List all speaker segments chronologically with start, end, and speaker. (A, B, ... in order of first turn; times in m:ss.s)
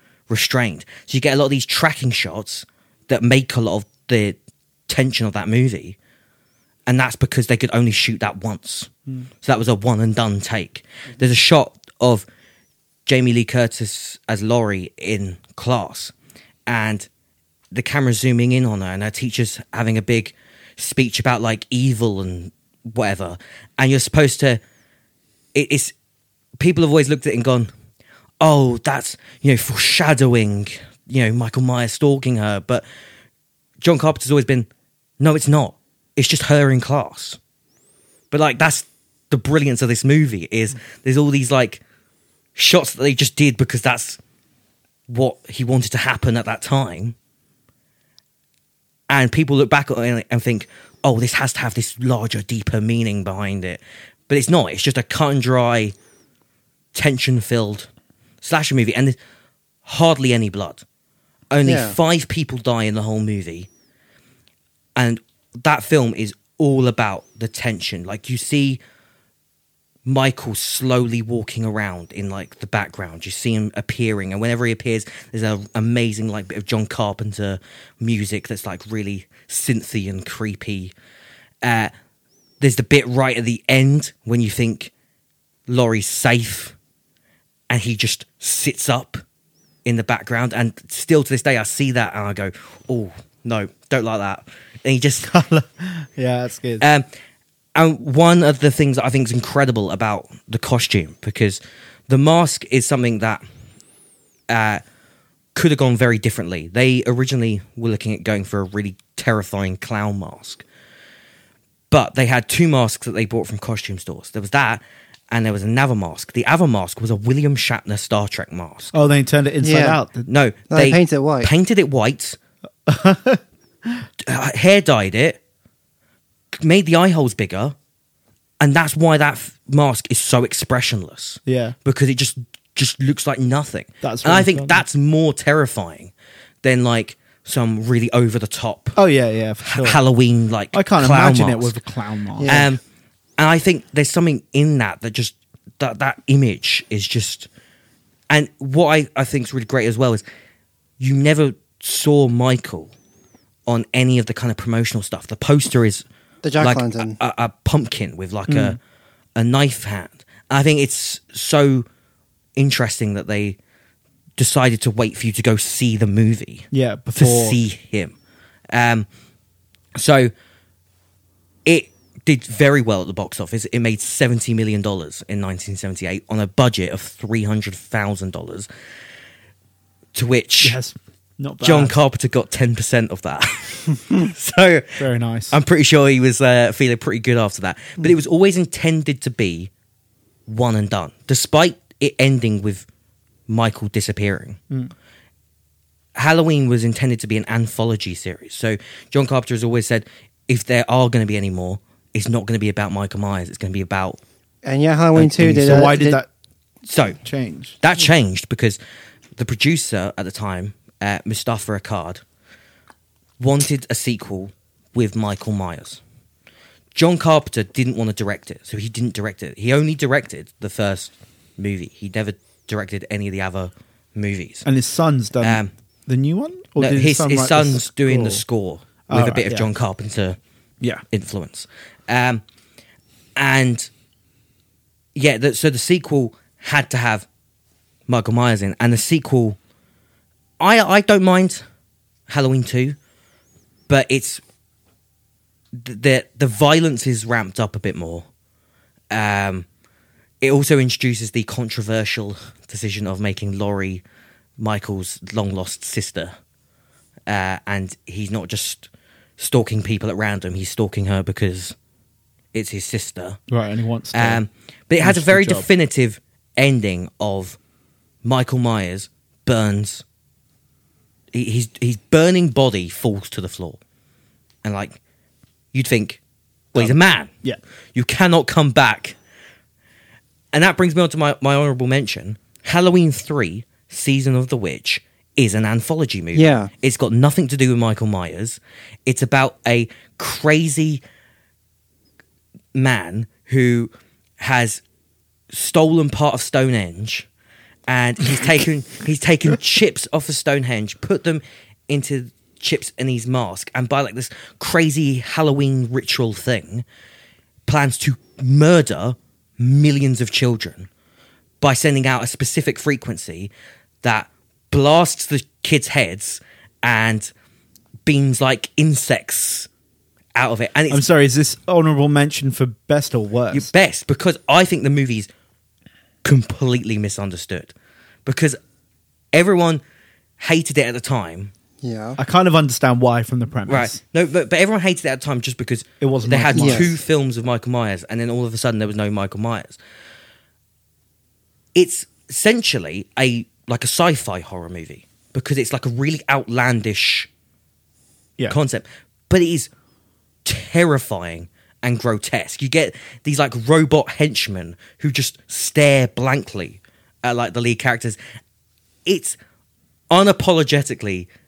0:00.3-0:06.0 A
0:06.9-0:08.9 A
0:09.4-0:12.2 A
0:13.0-0:16.1 A
0:16.7-0:17.1 A
0:17.7-0:24.6 A
0:25.5-0:25.9 A
0:26.6-0:27.7 A
0:28.4-0:32.8 A
0:33.8-0:34.7 A
0:35.2-0:37.4 A
0:38.3-0:41.8 A
0:42.5-0:44.2 A
0:45.1-0:47.2 A
0:49.1-0:55.9 A
0:56.9-0:57.9 A
0:58.4-0:59.2 A
0:59.8-1:00.8 A
1:01.5-1:03.7 A
1:01.6-1:02.0 B
1:05.0-1:08.8 A
1:10.0-1:20.9 A
1:21.6-1:21.9 A
1:22.6-1:24.9 A
1:25.7-1:26.7 A
1:27.7-1:29.2 A
1:29.8-1:35.3 A
1:35.2-1:36.8 C
1:36.8-1:37.1 A
1:37.7-1:43.4 A
1:44.5-1:44.8 A
1:45.5-1:50.6 A
1:51.9-1:58.9 A
1:58.9-2:00.3 C
1:59.6-2:00.0 B
2:00.3-2:02.4 A
2:00.7-2:01.5 B
2:02.9-2:03.4 C
2:04.2-2:05.4 A
2:06.5-2:07.8 A
2:08.6-2:16.1 A
2:11.5-2:11.7 C
2:14.0-2:14.8 C
2:16.6-2:19.0 A
2:19.0-2:20.0 C
2:19.6-2:21.8 A
2:20.7-2:22.6 C
2:22.4-2:22.7 B
2:22.4-2:22.8 A
2:23.4-2:27.5 A
2:28.3-2:30.2 A
2:31.0-2:32.9 A
2:33.7-2:36.0 A
2:36.4-2:37.2 B
2:36.6-2:38.8 A
2:38.5-2:38.8 C
2:39.4-2:41.8 A
2:42.6-2:43.6 A
2:44.4-2:48.1 A
2:46.7-2:47.6 C
2:48.7-2:49.1 A
2:50.0-2:50.3 A
2:51.6-2:58.7 A
3:00.1-3:00.8 A
3:00.6-3:01.9 C
3:01.6-3:09.7 A
3:05.0-3:05.6 C
3:10.5-3:12.9 A
3:13.5-3:14.6 A
3:16.1-3:24.2 A
3:24.6-3:26.2 B
3:25.2-3:25.9 A
3:25.6-3:26.3 C
3:26.8-3:27.2 A
3:27.2-3:27.8 C
3:27.8-3:28.8 A
3:29.4-3:32.2 A
3:33.4-3:36.0 A
3:36.9-3:44.6 A
3:44.6-3:48.4 C
3:45.4-3:45.7 A
3:46.8-3:50.4 A
3:49.1-3:49.7 C
3:51.1-3:52.4 A
3:53.4-3:53.9 A
3:55.1-3:57.3 A
3:58.1-3:59.6 A
4:00.6-4:01.6 A
4:02.3-4:03.0 A
4:03.9-4:04.4 A
4:05.7-4:08.3 A
4:09.1-4:09.6 A
4:10.4-4:14.0 A
4:14.6-4:16.3 A
4:17.3-4:21.8 A
4:22.5-4:23.4 A
4:23.5-4:24.4 C
4:24.1-4:27.6 A
4:25.0-4:25.7 C
4:28.2-4:30.0 A
4:31.3-4:33.8 A
4:34.6-4:35.0 A
4:35.7-4:36.2 A
4:36.7-4:37.3 A
4:36.7-4:37.6 C
4:37.9-4:39.2 A
4:40.5-4:51.0 A
4:46.3-4:46.7 B
4:52.7-4:54.8 A
4:55.5-4:57.3 A
4:57.9-5:06.8 A
5:07.6-5:10.9 A
5:11.6-5:13.5 A
5:14.0-5:17.3 A
5:18.0-5:19.7 A
5:20.3-5:21.0 A
5:20.9-5:23.7 C
5:23.5-5:25.3 A
5:26.2-5:27.7 A
5:28.2-5:28.6 A
5:29.3-5:29.8 A
5:30.4-5:31.5 A
5:31.8-5:32.2 B
5:32.2-5:34.0 C
5:33.7-5:39.8 A
5:36.0-5:36.9 C
5:36.5-5:36.9 B
5:41.7-5:47.3 A
5:48.5-5:49.7 A
5:50.4-5:58.2 A
5:59.0-5:59.4 A
6:00.1-6:01.3 A